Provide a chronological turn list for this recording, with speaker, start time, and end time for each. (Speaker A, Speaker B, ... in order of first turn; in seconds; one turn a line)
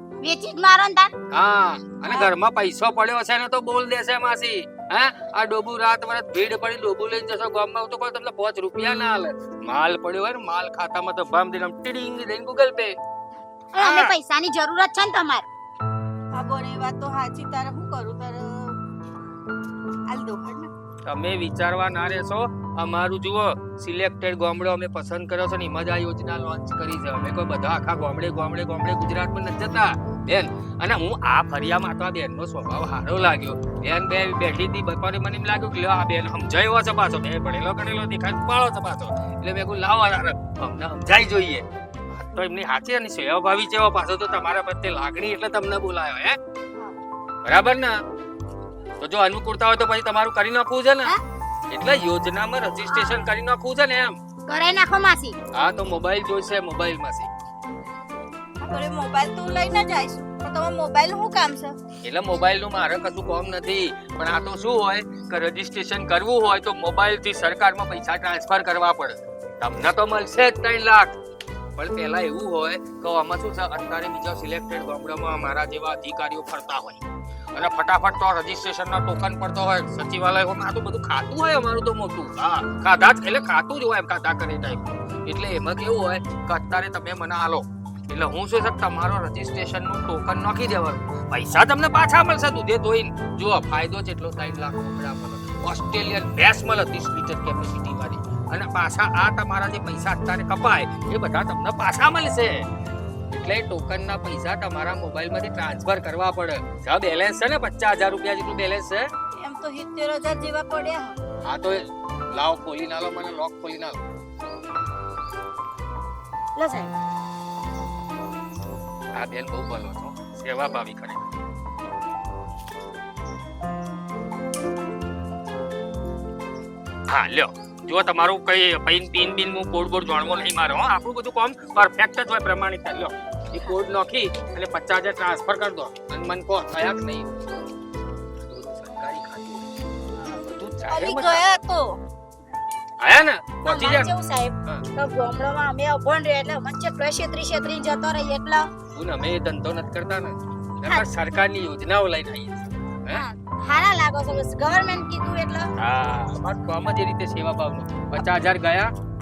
Speaker A: 0.2-1.1
Speaker B: 1.3-12.9
Speaker A: 13.7-15.4
Speaker C: 13.8-14.1
Speaker C: 16.3-18.8
Speaker C: 20.1-20.7
Speaker B: 21.1-46.4
Speaker B: 47.4-48.0
Speaker B: 49.0-51.1
Speaker B: 51.7-54.2
Speaker A: 52.9-53.2
Speaker A: 54.5-55.4
Speaker B: 55.5-57.3
Speaker C: 58.6-61.8
Speaker B: 62.0-71.1
Speaker B: 71.8-77.0
Speaker B: 77.5-102.7
Speaker B: 103.3-109.1
Speaker C: 109.3-111.2
Speaker B: 111.4-114.0
Speaker A: 116.5-116.9
Speaker B: 119.1-121.2
Speaker B: 127.1-137.3
Speaker B: 138.5-141.4
Speaker C: 140.9-142.0
Speaker B: 143.0-144.1
Speaker A: 143.7-148.7
Speaker B: 148.9-153.2
Speaker A: 153.1-155.7
Speaker B: 155.8-158.9